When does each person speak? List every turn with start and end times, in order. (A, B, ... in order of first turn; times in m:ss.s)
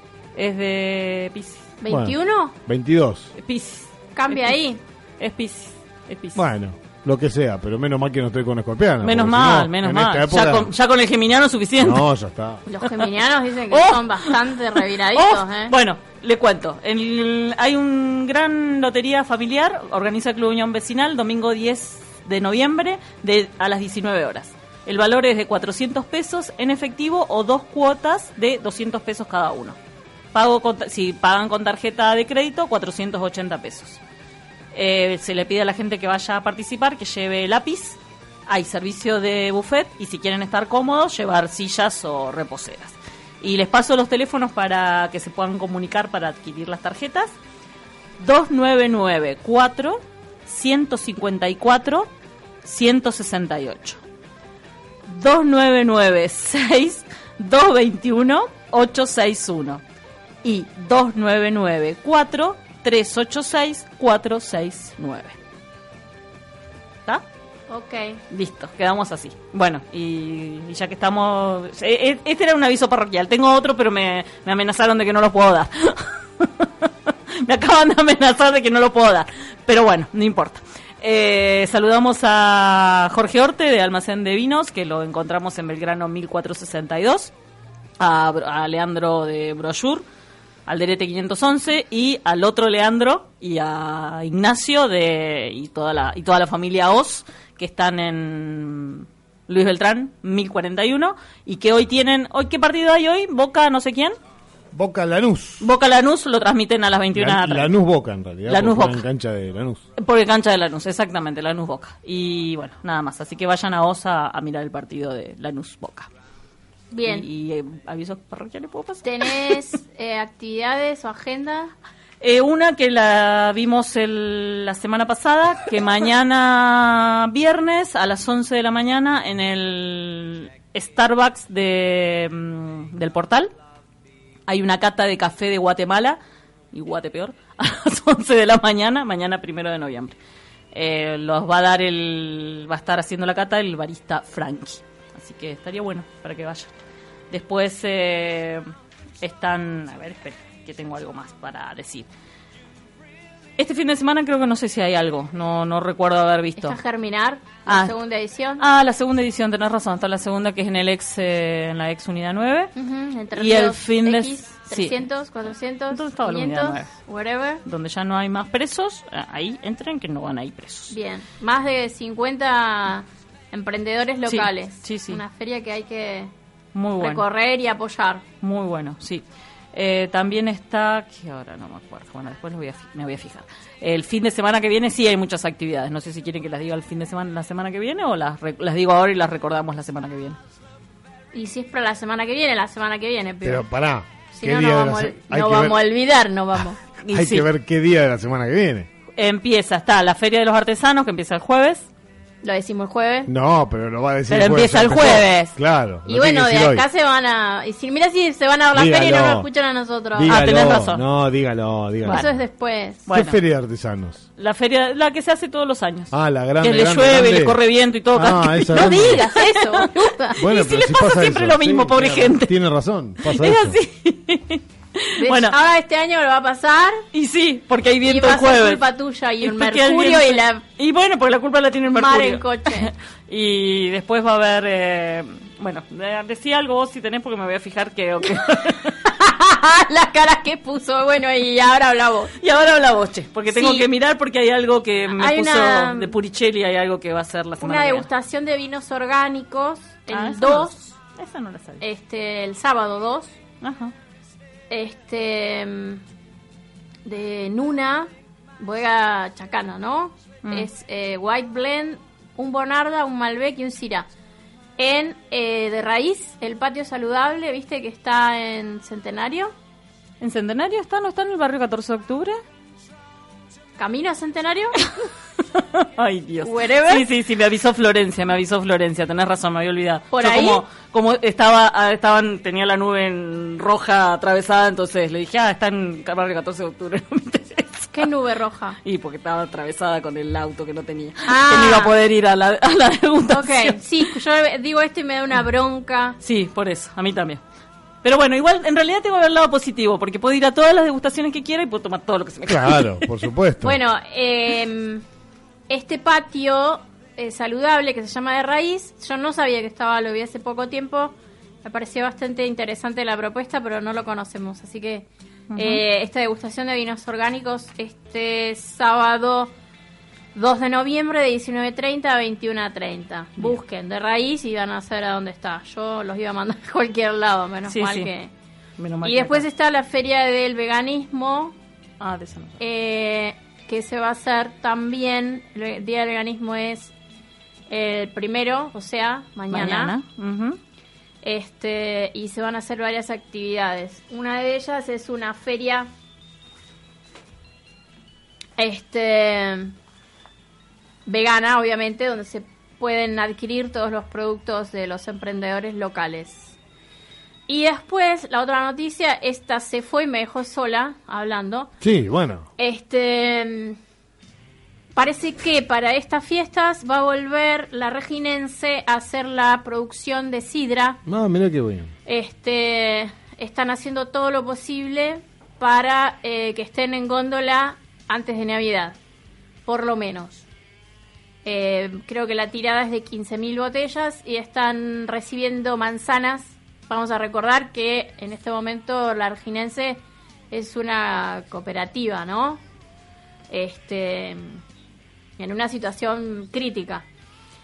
0:00.4-0:01.7 A
0:01.8-0:02.5 B
0:01.9-0:03.3 C
0:03.4-0:04.6 A
0:04.2-0:04.8 B
0:05.2-0:06.4 A
0:06.4-0:10.7 C
0:09.0-0:12.1 A
0:11.8-0:12.6 C
0:12.7-0:15.7 B
0:12.8-0:13.1 A
0:13.7-0:29.8 A
0:30.3-0:34.0 A
0:34.7-0:47.4 A
0:48.2-0:52.1 A
0:52.6-0:54.0 A
0:55.1-0:59.8 A
1:00.4-1:05.4 A
1:07.7-1:08.2 B
1:08.3-1:27.3 A
1:28.0-1:30.0 A
1:30.7-1:44.2 A
1:44.7-1:45.7 C
1:45.6-1:47.7 A
1:47.1-1:49.8 C
1:48.5-1:49.0 A
1:50.0-1:56.1 A
1:56.9-1:57.2 B
1:57.0-1:59.6 A
1:59.0-2:01.7 B
2:02.2-2:13.5 A
2:14.5-2:16.2 A
2:16.7-2:20.2 A
2:20.7-2:26.7 A
2:27.3-2:28.7 A
2:29.2-2:32.1 A
2:33.6-2:36.8 A
2:36.6-2:38.6 B
2:37.6-2:38.0 A
2:38.6-2:42.7 A
2:42.8-2:47.6 B
2:43.3-2:45.0 A
2:45.9-2:46.9 A
2:47.6-2:50.9 A
2:50.9-2:56.3 B
2:54.3-2:55.2 A
2:56.7-2:57.2 A
2:57.0-2:58.2 B
2:58.4-3:10.4 A
3:11.3-3:13.6 B
3:13.4-3:15.8 C
3:14.3-3:16.8 B
3:17.0-3:17.5 A
3:17.1-3:18.9 C
3:19.2-3:21.9 A
3:22.4-3:23.3 B
3:23.3-3:26.8 C
3:24.3-3:25.6 A
3:26.1-3:30.4 B
3:28.7-3:29.5 C
3:30.1-3:32.3 C
3:30.3-3:31.0 A
3:32.0-3:32.3 A
3:32.1-3:33.0 B
3:33.1-3:33.4 A
3:33.1-3:34.2 C
3:34.4-3:42.6 A
3:36.1-3:37.6 C
3:38.1-3:39.2 C
3:38.7-3:40.4 B
3:40.4-3:43.8 C
3:43.2-3:45.6 A
3:45.2-3:47.0 B
3:47.1-3:48.8 A
3:48.0-3:50.6 B
3:49.4-3:59.0 A
3:51.9-3:52.9 B
3:59.0-4:02.3 B
4:02.4-4:08.1 A
4:03.5-4:03.9 B
4:05.1-4:06.1 B
4:07.6-4:10.7 B
4:10.1-4:11.8 A
4:11.8-4:13.4 B
4:13.6-4:13.9 A
4:14.7-4:16.0 B
4:17.0-4:24.1 B
4:24.8-4:29.5 B
4:30.2-4:32.4 A
4:33.8-4:34.8 B
4:35.5-4:48.1 A
4:36.4-4:37.1 B
4:40.1-4:40.6 B
4:47.9-4:48.8 B
4:48.8-4:54.1 A
4:51.2-4:51.9 B
4:53.3-4:56.2 B
4:56.2-4:57.4 A
4:58.0-5:03.1 A
5:02.5-5:03.8 C
5:03.6-5:05.0 B
5:05.7-5:19.5 B
5:15.5-5:15.8 A
5:20.4-5:28.3 B
5:27.7-5:28.1 A
5:28.8-5:29.4 A
5:29.0-5:31.6 B
5:32.0-5:32.6 A
5:32.6-5:36.9 B
5:37.7-5:40.0 B
5:39.5-5:40.6 A
5:41.2-5:45.9 B
5:48.6-5:49.8 B
5:51.1-5:56.6 B
5:57.5-6:01.7 B
6:01.8-6:02.4 C
6:02.6-6:03.8 B
6:04.9-6:11.0 B
6:11.1-6:11.9 C
6:12.1-6:19.0 B
6:19.6-6:20.4 B
6:21.4-6:32.6 B
6:33.5-6:34.6 B
6:35.4-6:37.0 B